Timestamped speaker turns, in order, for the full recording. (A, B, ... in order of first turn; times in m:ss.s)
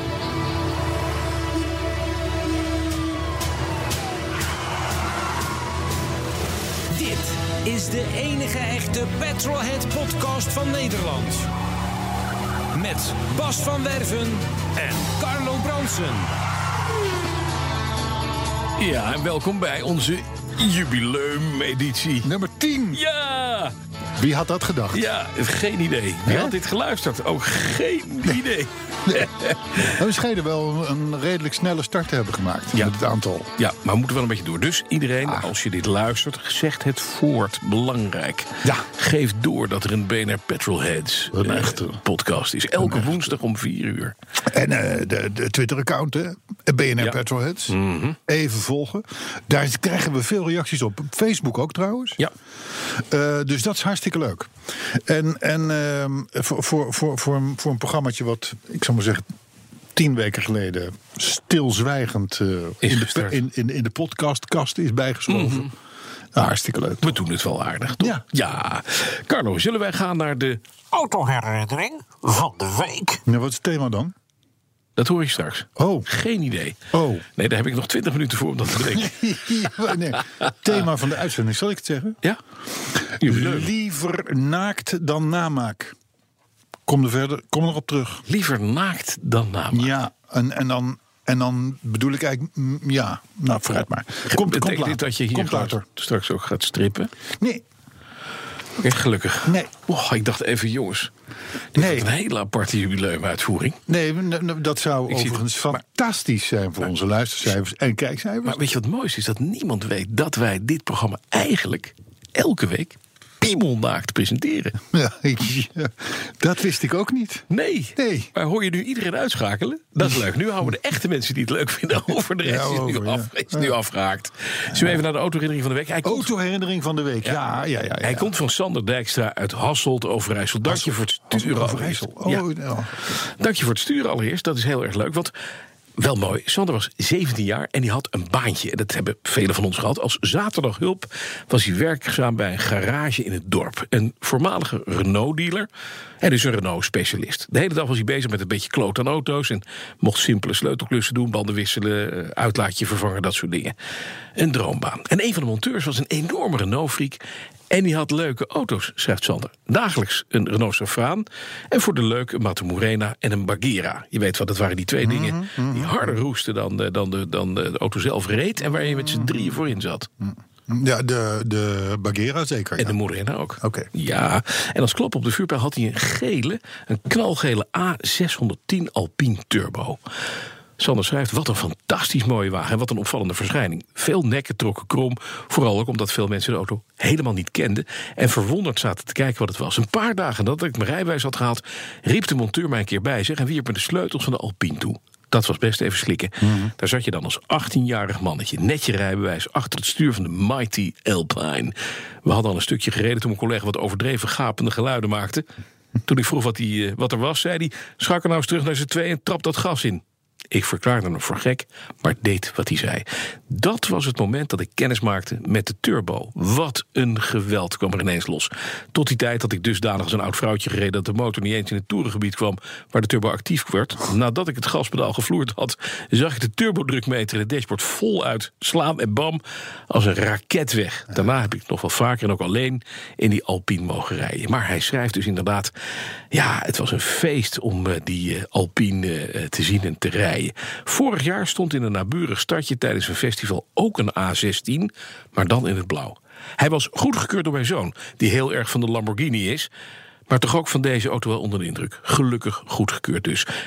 0:06.9-0:11.5 A
0:12.7-0:16.3 A
0:18.8-0:22.3 B
0:22.2-0:23.0 C
0:22.9-0:23.7 B
0:24.2-0:25.0 C
0:24.9-0:30.0 B
0:26.2-0:26.5 C
0:29.0-0:33.5 C
0:33.6-0:44.1 B
0:35.2-0:35.5 C
0:38.6-0:38.9 C
0:41.3-0:42.0 C
0:42.8-0:43.1 C
0:44.4-0:52.2 C
0:47.7-0:48.2 B
0:52.8-0:59.2 C
0:59.9-1:05.7 C
1:02.8-1:03.4 B
1:05.3-1:05.7 B
1:06.3-1:07.2 C
1:07.0-1:10.6 B
1:10.9-1:13.2 D
1:13.2-1:14.1 C
1:15.0-1:16.8 B
1:15.8-1:16.1 C
1:16.9-1:17.2 C
1:17.4-1:19.3 B
1:18.8-1:22.2 C
1:22.9-1:26.0 C
1:23.2-1:23.7 B
1:26.8-1:28.2 C
1:28.3-1:29.9 B
1:29.7-1:35.8 C
1:34.3-1:37.1 B
1:37.4-1:37.6 C
1:38.8-1:41.1 B
1:39.4-1:39.7 C
1:41.7-1:43.8 B
1:41.7-1:42.1 C
1:43.9-1:48.6 C
1:45.1-1:45.4 B
1:48.4-1:54.8 B
1:54.9-1:58.3 C
1:57.5-2:06.3 B
2:02.4-2:03.7 C
2:04.7-2:05.0 C
2:06.0-2:08.3 C
2:08.0-2:12.4 B
2:10.6-2:13.0 C
2:13.1-2:15.3 B
2:16.0-2:25.7 B
2:26.2-2:33.7 B
2:34.4-2:50.1 B
2:45.0-2:46.2 C
2:48.6-2:49.6 C
2:50.2-2:53.0 C
2:52.8-3:00.0 B
2:53.6-2:53.9 C
3:00.8-3:25.4 B
3:16.4-3:16.7 C
3:26.0-3:55.7 B
3:56.3-4:09.7 B
4:10.3-4:13.5 B